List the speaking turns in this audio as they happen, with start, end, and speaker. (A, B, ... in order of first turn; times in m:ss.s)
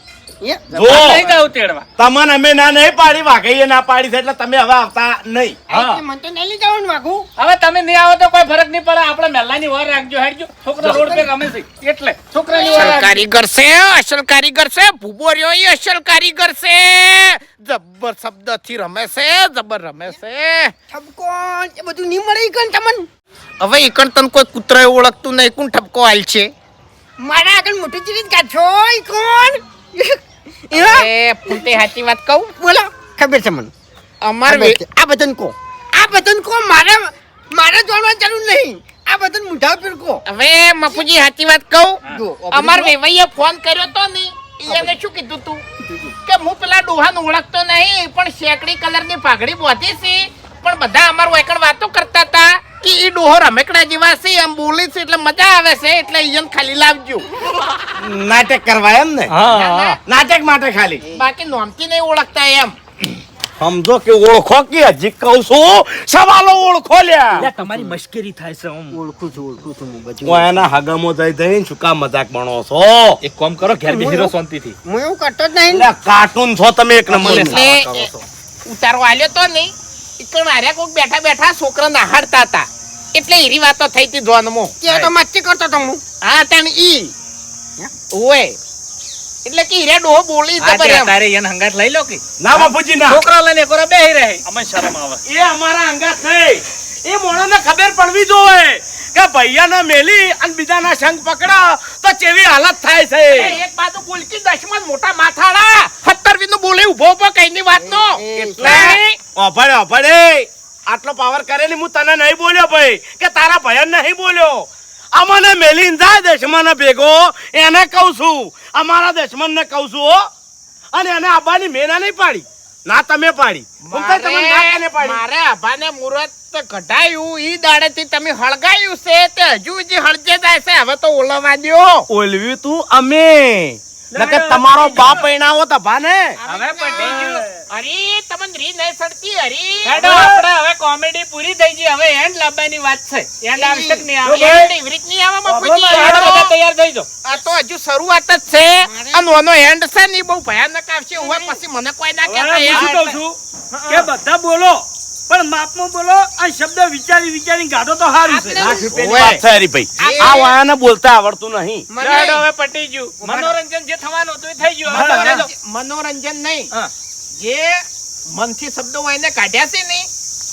0:00.7-0:01.8 A
0:00.7-0:01.3 B
0:00.9-0:01.2 C
0:02.0-0:05.6 B
0:05.7-0:07.3 D
0:05.7-0:06.0 A
0:07.4-0:13.1 A
0:10.9-0:11.3 D
0:12.3-0:13.1 D
0:12.7-0:20.7 C
0:20.9-0:23.1 D
0:23.6-0:26.5 C
0:27.2-0:31.6 D
0:30.7-0:32.5 C
0:32.6-0:33.7 D
0:34.2-0:34.8 C
0:34.5-0:40.2 D
0:40.2-0:45.6 C
0:42.1-0:42.9 D
0:44.6-0:44.9 D
0:45.8-0:46.1 D
0:46.2-0:57.2 C
0:58.0-0:59.3 B
0:59.3-1:00.0 E
0:59.5-1:00.0 C
1:00.0-1:01.0 B
1:01.1-1:02.7 C
1:03.6-1:07.5 B
1:07.4-1:09.0 F
1:07.6-1:07.9 E
1:08.9-1:10.6 D
1:10.2-1:13.2 B
1:13.2-1:14.8 E
1:13.8-1:14.3 D
1:14.8-1:15.9 D
1:15.7-1:17.6 B
1:17.1-1:18.2 E
1:17.2-1:18.1 C
1:18.7-1:24.7 C
1:24.8-1:26.0 D
1:26.2-1:27.1 C
1:28.1-1:28.6 C
1:29.4-1:31.1 C
1:30.6-1:34.4 A
1:32.4-1:33.2 B
1:34.4-1:35.2 E
1:35.2-1:43.6 B
1:43.3-1:49.2 C
1:47.8-1:49.0 D
1:48.3-2:00.2 B
2:00.9-2:05.2 B
2:03.8-2:12.1 C
2:12.1-2:16.4 B
2:16.4-2:20.0 C
2:16.4-2:17.4 A
2:19.8-2:24.6 A
2:20.0-2:20.4 B
2:23.6-2:24.0 D
2:24.3-2:24.7 F
2:24.3-2:26.5 C
2:24.3-2:24.6 B
2:25.6-2:26.3 B
2:25.9-2:27.1 A
2:27.2-2:33.1 C
2:28.8-2:29.3 D
2:31.2-2:31.6 D
2:32.3-2:33.4 E
2:33.7-2:34.0 C
2:33.9-2:38.9 F
2:38.3-2:39.4 C
2:38.9-2:41.8 B
2:40.0-2:40.5 C
2:41.9-2:42.4 D
2:42.0-2:42.3 C
2:42.0-2:45.4 A
2:43.2-2:43.5 D
2:44.9-2:46.7 C
2:47.4-2:50.1 C